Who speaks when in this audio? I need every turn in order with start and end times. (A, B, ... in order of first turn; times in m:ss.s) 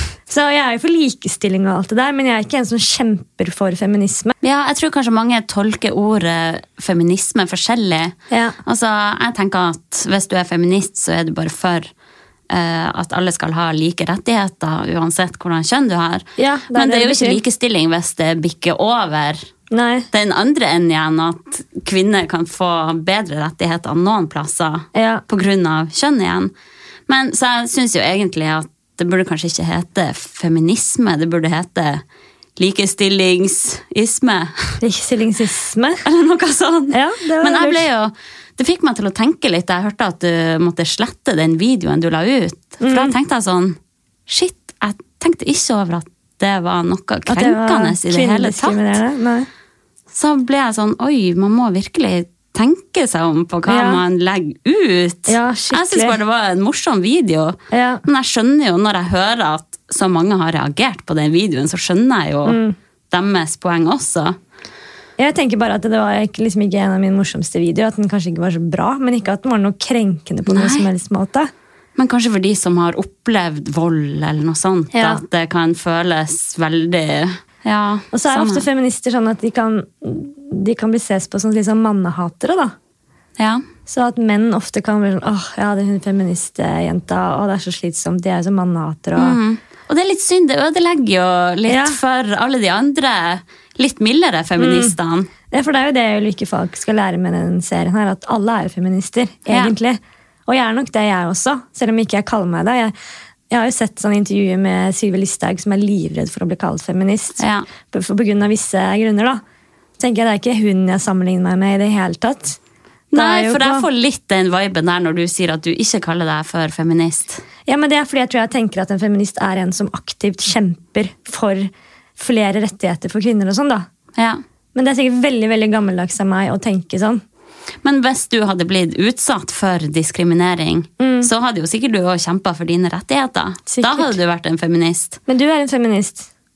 0:00.3-0:04.3 A
0:04.4-0:11.9 B
0:08.3-0:08.6 A
0:12.5-0:19.4 B
0:16.4-0:17.4 A
0:19.7-0:20.1 A
0:20.1-0:26.5 B
0:24.9-0:25.2 A
0:27.1-0:32.0 B
0:32.6-0:34.8 B
0:34.8-0:36.0 A
0:36.0-0:49.0 B
0:36.9-0:37.9 A
0:42.8-0:43.1 A
0:47.3-0:49.5 A
0:50.1-1:02.6 B
0:53.7-0:54.0 A
0:55.3-0:56.2 A
0:57.7-0:58.0 A
1:02.4-1:02.8 A
1:03.1-1:04.4 B
1:05.2-1:11.5 A
1:10.4-1:10.9 B
1:12.0-1:18.6 B
1:14.9-1:15.2 A
1:18.1-1:22.7 A
1:23.4-1:23.6 B
1:23.9-1:29.4 A
1:29.2-1:35.3 B
1:31.7-1:32.0 A
1:34.6-1:34.9 A
1:35.5-1:42.9 A
1:39.5-1:39.7 B
1:43.5-1:49.4 A
1:47.4-1:47.7 B
1:50.0-1:52.6 A
1:53.1-1:53.9 A
1:53.1-1:57.4 B
1:57.7-2:03.8 A
2:04.2-2:04.4 B
2:04.7-2:07.2 A
2:07.8-2:15.2 B
2:11.0-2:11.3 A
2:13.7-2:14.2 A
2:15.3-2:16.3 A